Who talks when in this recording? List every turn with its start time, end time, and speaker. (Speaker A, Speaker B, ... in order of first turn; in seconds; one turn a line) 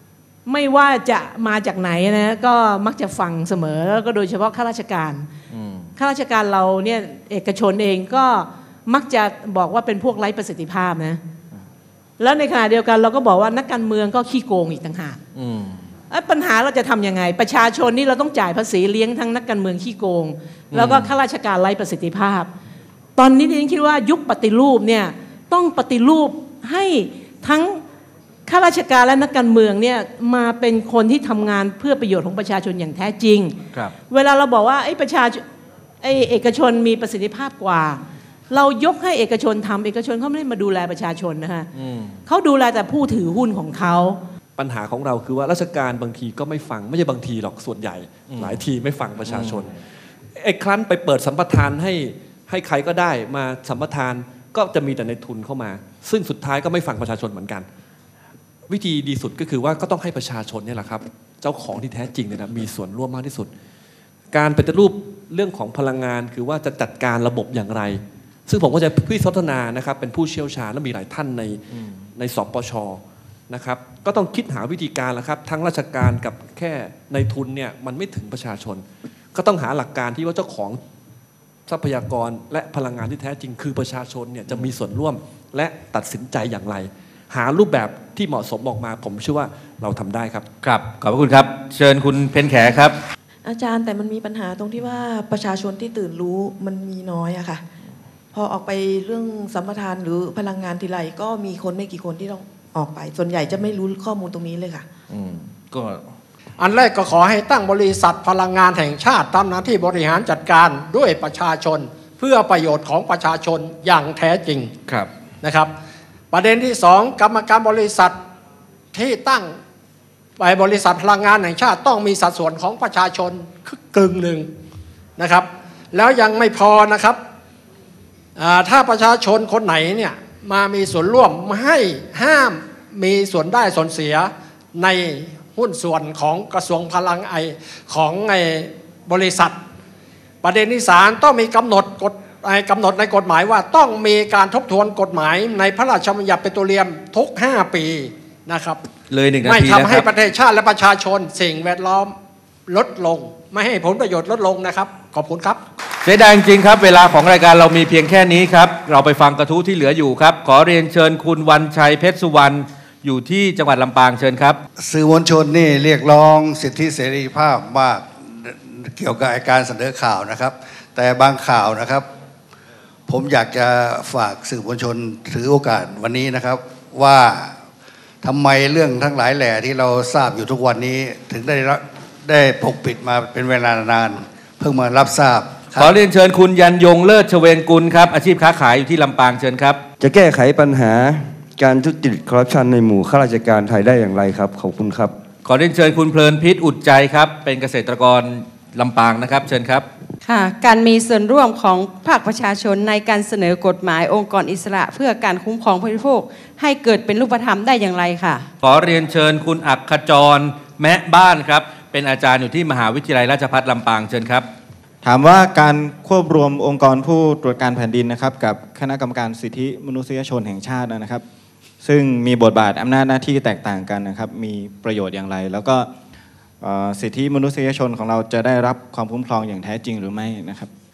Speaker A: 0.5-5.3
Speaker B: 5.5-5.9
Speaker A: 6.0-11.2
Speaker A: 12.2-15.2
Speaker B: 15.3-15.8
Speaker A: 16.1-22.5
Speaker B: 20.7-21.1
Speaker A: 23.2-27.8
Speaker A: 28.5-33.6
Speaker A: 34.1-35.4
Speaker A: 36.0-41.7
Speaker B: 41.7-42.2
Speaker A: 42.2-44.2
Speaker C: 44.6-49.7
Speaker B: 48.3-48.6
Speaker B: 49.2-49.7
Speaker C: 50.3-57.7
Speaker C: 58.7-63.5
Speaker C: 64.3-71.6
Speaker C: 72.2-80.8
Speaker C: 81.7-90.5
Speaker B: 90.6-93.0
Speaker D: 93.4-97.6
Speaker D: 98.3-104.8
Speaker B: 105.1-106.0
Speaker E: 106.6-114.7
Speaker E: 115.4-115.7
Speaker E: 116.3-118.2
Speaker E: 118.9-119.5
Speaker E: 120.4-124.5
Speaker E: 125.2-127.2
Speaker E: 128.3-139.6
Speaker E: 140.4-148.8
Speaker B: 149.1-150.1
Speaker E: 149.4-152.2
Speaker E: 152.7-155.6
Speaker B: 156.0-164.6
Speaker F: 164.8-172.1
Speaker F: 173.1-177.5
Speaker F: 178.2-185.9
Speaker B: 185.8-189.8
Speaker G: 190.0-195.1
Speaker B: 195.4-199.9
Speaker H: 200.2-208.4
Speaker B: 208.6-214.4
Speaker I: 215.0-221.2
Speaker I: 221.8-225.9
Speaker I: 226.6-230.7